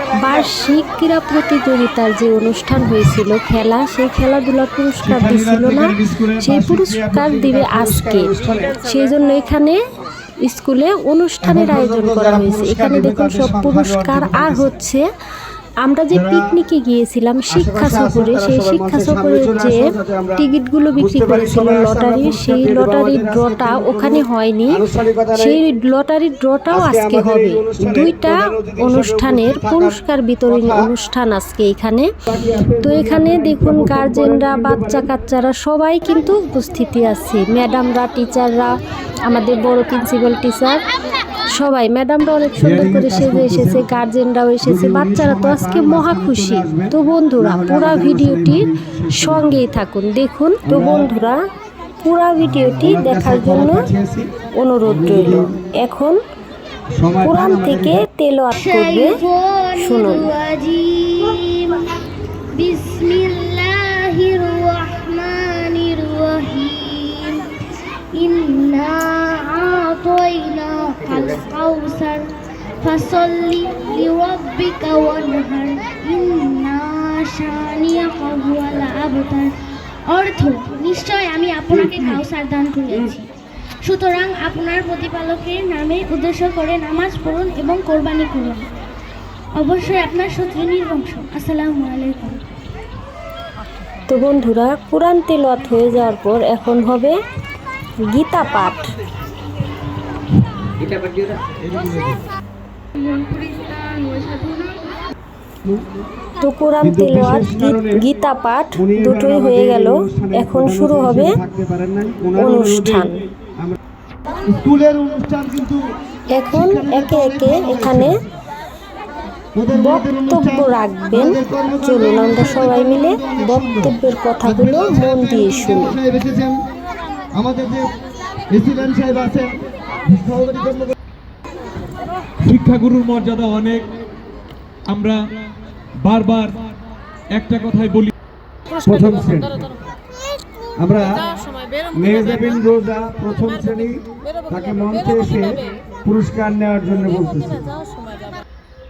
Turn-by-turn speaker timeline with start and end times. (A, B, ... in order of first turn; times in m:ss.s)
0:00.2-0:09.8 A
0:05.0-0:08.8 B
0:10.4-0:15.0 A
0:11.4-0:14.7 B
0:15.8-0:24.8 A
0:16.1-0:16.5 B
0:17.5-0:25.6 B
0:25.4-0:32.1 A
0:26.7-0:30.9 B
0:32.3-0:35.1 B
0:32.8-0:40.8 A
0:41.6-0:51.4 A
0:42.6-0:43.9 B
0:44.6-0:49.6 B
0:50.6-0:51.1 B
0:52.0-0:53.9 A
0:52.4-0:54.3 B
0:54.6-0:56.2 A
0:54.9-0:55.6 B
0:57.0-0:58.0 B
0:57.2-0:59.2 A
0:58.6-1:02.0 C
0:59.8-1:00.3 A
1:02.5-1:07.5 C
1:08.2-1:19.6 C
1:20.1-1:23.3 C
1:23.8-1:28.7 C
1:29.6-1:32.6 C
1:34.1-1:37.2 A
1:38.1-1:38.9 A
1:40.8-1:42.2 B
1:43.0-1:44.8 C
1:46.4-1:51.4 A
1:46.8-1:48.0 B
1:48.8-1:53.8 B
1:52.4-1:53.2 A
1:54.4-1:55.8 B
1:56.4-1:58.2 A
1:56.5-1:58.1 B
1:59.6-2:06.6 B
1:59.7-2:06.0 A
2:07.3-2:07.9 B
2:08.5-2:10.9 B
2:12.4-2:13.9 D
2:14.9-2:15.2 D
2:16.0-2:16.6 D
2:17.3-2:18.1 D
2:18.8-2:19.6 B
2:20.8-2:21.3 B
2:21.9-2:27.8 B